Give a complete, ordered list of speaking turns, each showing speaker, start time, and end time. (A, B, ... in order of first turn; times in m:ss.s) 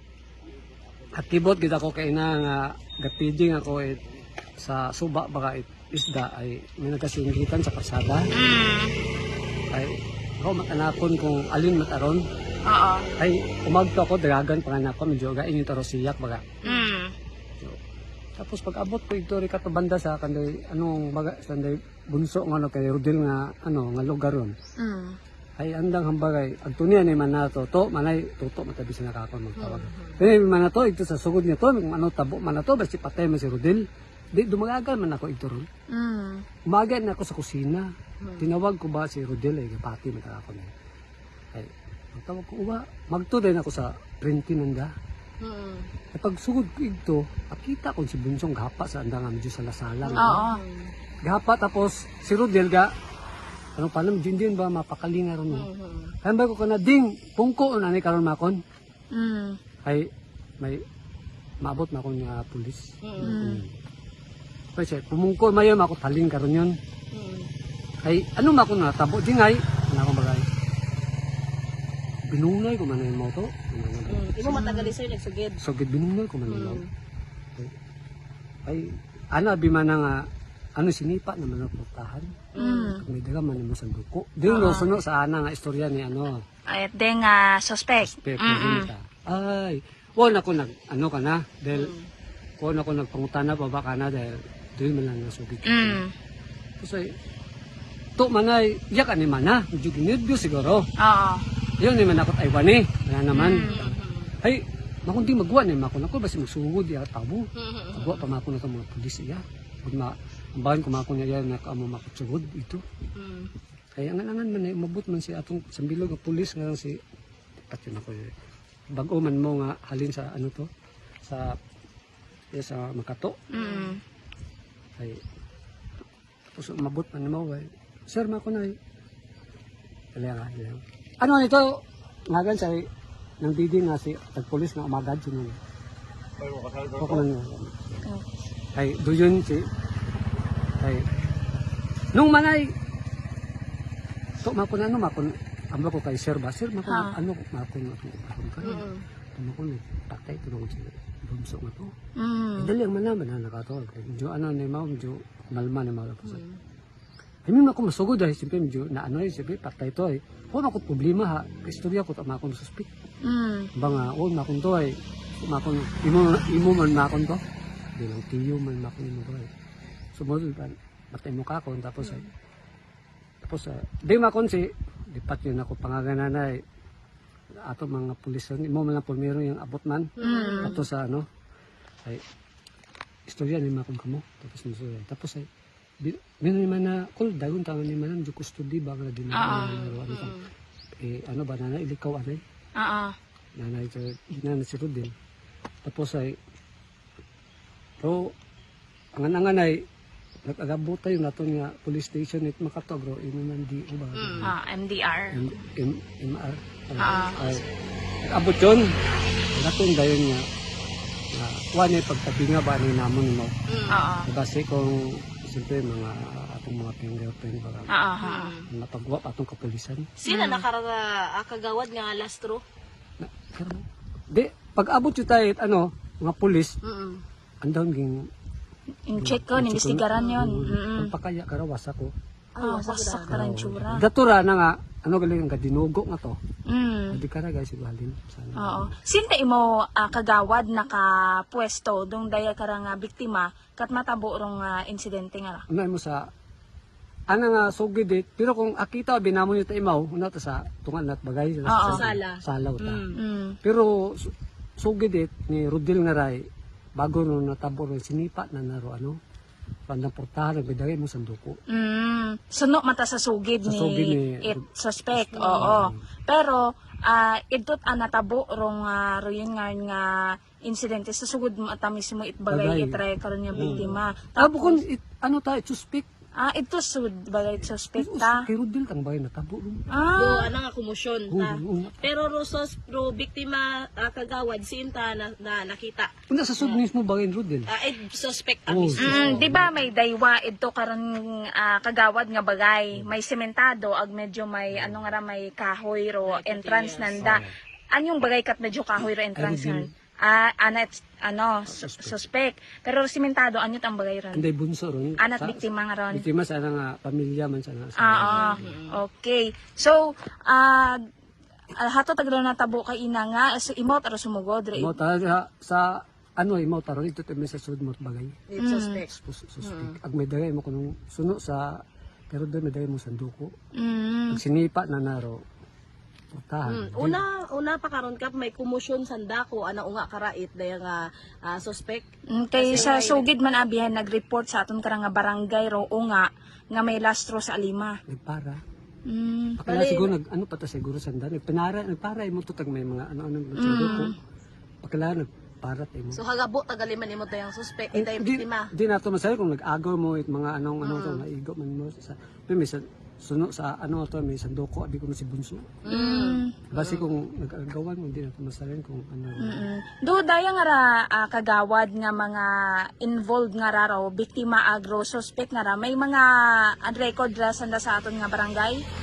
0:01.2-0:04.0 A
0:04.6-0:08.3 A
0:08.3-0:08.9 B
0:09.7-0:12.2 A
0:12.7-0:13.1 B
0:13.2-0:16.4 A
0:16.6-0:17.1 B
0:16.7-0:16.9 C
0:18.4-0:24.5 A
0:24.8-0:25.2 B
0:25.6-0:33.8 A
0:29.6-0:30.2 C
0:34.4-0:35.7 A
0:35.9-0:36.4 B
0:36.7-0:37.9 A
0:38.2-0:38.5 C
0:38.4-0:40.7 A
0:41.5-0:44.9 A
0:45.4-0:45.9 C
0:46.2-0:50.4 A
0:50.0-0:50.9 C
0:50.2-0:50.6 B
0:51.2-0:52.9 A
0:53.8-0:55.7 A
0:55.5-0:56.2 C
0:56.2-0:58.6 A
0:59.1-0:59.6 B
1:01.6-1:03.7 A
1:03.0-1:03.4 C
1:03.2-1:03.6 B
1:04.8-1:06.8 A
1:07.1-1:07.5 C
1:08.0-1:10.4 A
1:12.3-1:14.6 A
1:14.1-1:15.6 C
1:14.5-1:14.9 B
1:15.6-1:16.8 A
1:16.5-1:16.9 C
1:18.7-1:20.2 A
1:20.8-1:22.3 A
1:22.6-1:23.0 C
1:22.6-1:23.0 B
1:23.0-1:26.4 A
1:24.5-1:24.9 B
1:26.7-1:28.9 B
1:28.0-1:31.9 A
1:31.7-1:32.0 C
1:32.6-1:36.0 A
1:35.7-1:36.1 B
1:38.2-1:40.8 A
1:41.0-1:41.4 B
1:41.8-1:47.4 A
1:43.4-1:43.7 B
1:43.4-1:44.3 C
1:47.6-1:48.3 C
1:47.9-1:52.8 A
1:53.2-1:53.5 C
1:54.0-1:57.0 A
1:57.7-1:58.3 A
1:59.0-2:00.7 A
2:01.2-2:01.5 A
2:02.6-2:03.4 A
2:03.5-2:04.0 B
2:03.6-2:04.0 C
2:06.6-2:08.8 A
2:10.1-2:12.8 A
2:13.4-2:15.6 A
2:16.8-2:18.0 A
2:18.8-2:19.6 A
2:22.2-2:22.7 A
2:24.4-2:31.9 A
2:26.9-2:27.2 B
2:28.6-2:29.0 C
2:32.2-2:32.7 B
2:32.6-2:36.4 A
2:36.2-2:36.6 C
2:37.5-2:42.9 A
2:43.3-2:43.7 B
2:43.8-2:47.4 A
2:48.0-2:49.5 A
2:50.2-2:52.3 A
2:53.4-2:56.6 A
2:57.7-3:01.2 A
3:00.2-3:00.8 C
3:00.2-3:00.8 B
3:03.3-3:05.5 A
3:06.0-3:10.4 A
3:09.3-3:09.8 B
3:09.4-3:10.5 C
3:11.0-3:12.4 A
3:12.8-3:13.2 B
3:13.6-3:15.1 A
3:15.8-3:16.4 A
3:19.2-3:19.8 A
3:20.5-3:24.5 A
3:24.2-3:24.5 C
3:24.4-3:25.4 B
3:25.3-3:27.6 A
3:27.0-3:27.4 B
3:27.0-3:27.6 C
3:28.3-3:28.9 A
3:29.6-3:30.4 A
3:31.3-3:33.6 A
3:33.7-3:34.0 C
3:33.9-3:34.3 B
3:34.2-3:37.9 A
3:37.9-3:38.5 B
3:38.2-3:38.7 C
3:38.7-3:40.1 A
3:40.2-3:42.6 C
3:40.3-3:40.6 B
3:43.2-3:46.8 A
3:46.8-3:47.2 C
3:47.6-3:48.2 A
3:49.1-3:51.1 B
3:49.2-3:52.1 A
3:52.6-3:53.4 C
3:52.6-3:54.0 B
3:53.3-3:56.4 A
3:56.7-3:57.2 B
3:57.1-3:58.9 A
3:58.6-4:05.6 B
4:05.7-4:06.2 A
4:07.3-4:13.1 A
4:11.7-4:12.0 B
4:11.8-4:13.2 C
4:13.2-4:13.6 B
4:13.6-4:16.4 A
4:17.0-4:19.2 A
4:19.9-4:21.6 A
4:21.7-4:34.8 B
4:23.6-4:26.0 A
4:25.3-4:25.8 C
4:32.5-4:33.0 A
4:33.6-4:34.0 C
4:33.6-4:36.0 A
4:36.4-4:38.4 B
4:38.0-4:39.8 A
4:39.9-4:40.5 B
4:40.2-4:46.8 C
4:41.3-4:42.0 A
4:46.3-4:47.7 A
4:47.7-4:49.5 C
4:48.7-4:49.9 A
4:49.0-5:04.5 B
4:54.7-4:55.1 A
4:56.2-4:57.4 C
4:57.2-4:57.5 A
4:59.4-4:59.9 A
5:01.7-5:02.2 A
5:04.3-5:08.8 A
5:05.2-5:06.2 B
5:08.0-5:11.0 B
5:08.3-5:09.0 C
5:11.7-5:15.0 B
5:14.8-5:18.4 A
5:18.5-5:19.1 C
5:18.6-5:19.0 B
5:19.1-5:21.7 A
5:19.6-5:20.0 C
5:22.3-5:23.5 A
5:23.8-5:24.4 B
5:24.3-5:25.4 A
5:26.3-5:27.2 A
5:26.7-5:32.0 C
5:32.3-5:38.0 B
5:32.6-5:33.3 C
5:38.1-5:38.6 A
5:39.1-5:39.6 B
5:39.6-5:44.2 A
5:39.6-5:40.1 C
5:43.6-5:44.1 B
5:43.6-5:44.1 C
5:44.8-5:46.2 A
5:46.1-5:48.7 C
5:47.9-5:55.8 A
5:50.8-5:51.3 C
5:55.8-5:57.1 C
5:55.9-5:56.6 B
5:56.7-5:59.7 A
5:59.4-6:06.3 B
6:06.8-6:08.8 B